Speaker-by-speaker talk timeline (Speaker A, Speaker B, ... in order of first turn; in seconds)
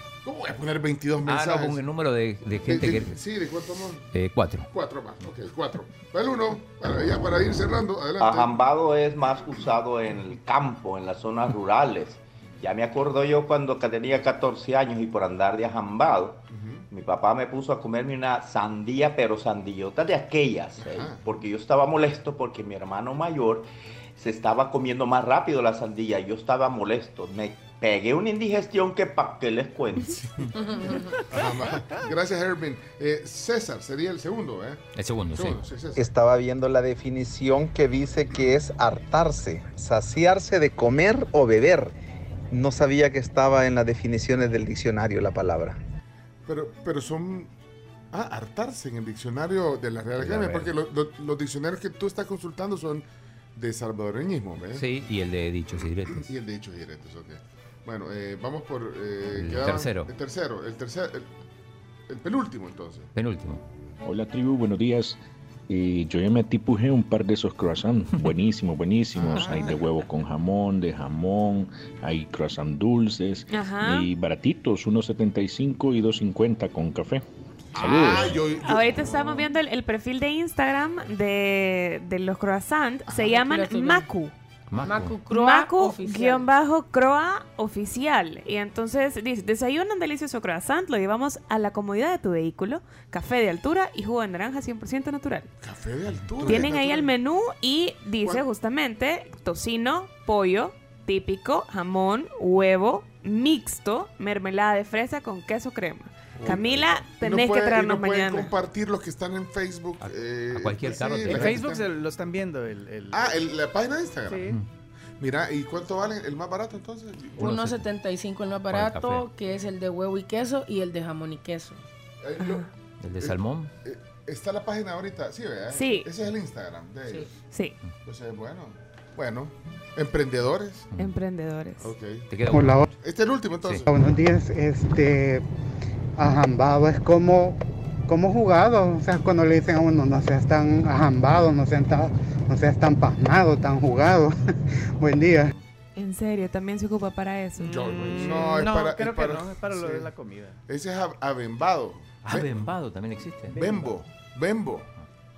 Speaker A: 0.2-1.8, 2.6-4.1, 4.7-8.6, 16.5-16.9, 20.8-21.2, 30.1-34.8, 35.3-36.0, 46.5-47.5, 48.1-54.9, 55.7-61.3, 62.1-63.1, 69.2-69.9, 77.8-79.5, 83.1-83.3, 95.6-97.1, 106.5-111.9, 113.1-114.6, 115.2-117.5, 122.2-122.7, 123.2-127.3, 128.0-130.9, 131.8-132.3, 133.0-133.9, 147.6-150.1, 150.7-152.7, 153.5-154.9
Speaker B: 1.2-3.2, 4.1-4.7, 35.0-35.6, 50.2-50.7, 54.7-56.3, 59.3-60.1, 63.1-63.6, 84.7-85.1, 110.0-111.6, 117.4-117.8, 118.7-119.3, 123.0-123.7, 132.3-132.9, 152.2-153.6
Speaker C: 8.2-30.2
Speaker D: 30.6-31.0, 83.2-84.1, 84.8-86.5, 117.4-121.8
Speaker E: 31.1-32.0, 111.3-113.5, 114.3-114.6, 147.6-150.6
Speaker F: 36.0-41.9, 42.5-45.8
Speaker G: 64.0-65.2, 65.7-77.2, 77.8-78.4
Speaker H: 73.5-74.1, 77.9-84.3, 85.3-95.5, 96.5-108.5, 122.4-122.7, 125.7-126.1, 127.5-127.8, 131.0-131.9, 146.0-147.8
Speaker I: 132.5-132.9, 133.9-135.4, 136.2-137.6, 138.1-144.3, 145.0-145.5